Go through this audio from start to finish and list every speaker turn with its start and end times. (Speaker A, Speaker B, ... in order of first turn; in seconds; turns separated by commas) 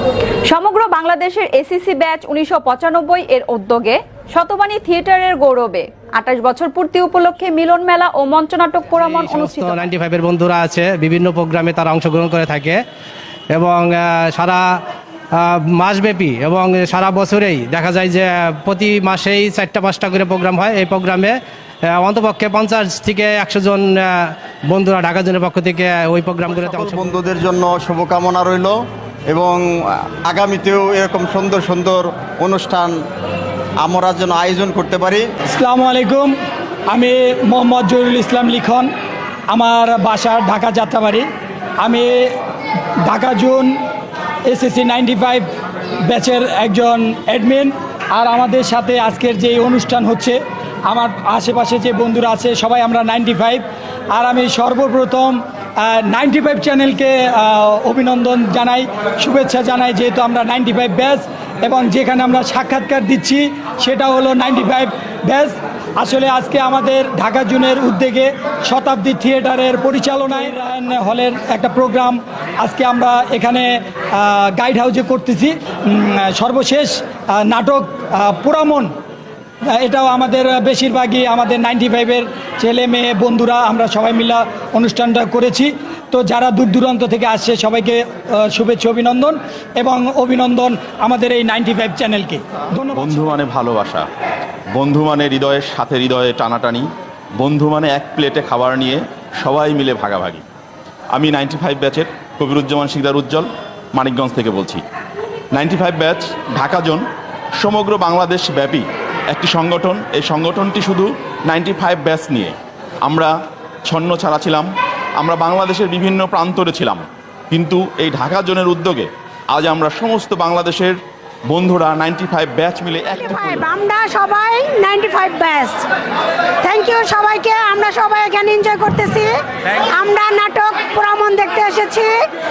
Speaker A: 0.5-9.9, Speaker B: 9.1-12.8, Speaker B: 13.5-14.8, Speaker B: 15.4-27.1, Speaker C: 26.5-28.7, Speaker C: 29.3-29.6, Speaker C: 30.2-33.0, Speaker C: 33.8-35.2, Speaker D: 35.6-36.3, Speaker D: 36.9-38.9, Speaker D: 39.5-41.3, Speaker D: 41.8-42.3, Speaker D: 43.1-43.8, Speaker D: 44.5-45.5, Speaker D: 46.1-78.9, Speaker D: 79.8-93.3, Speaker E: 93.0-94.1, Speaker E: 94.8-96.9, Speaker E: 97.4-100.4, Speaker E: 101.1-104.8, Speaker E: 105.5-107.1, Speaker E: 107.6-113.3, Speaker E: 113.9-114.7, Speaker E: 115.2-121.0, Speaker E: 121.5-123.7, Speaker F: 123.1-125.8, Speaker F: 126.6-129.3, Speaker F: 129.9-132.2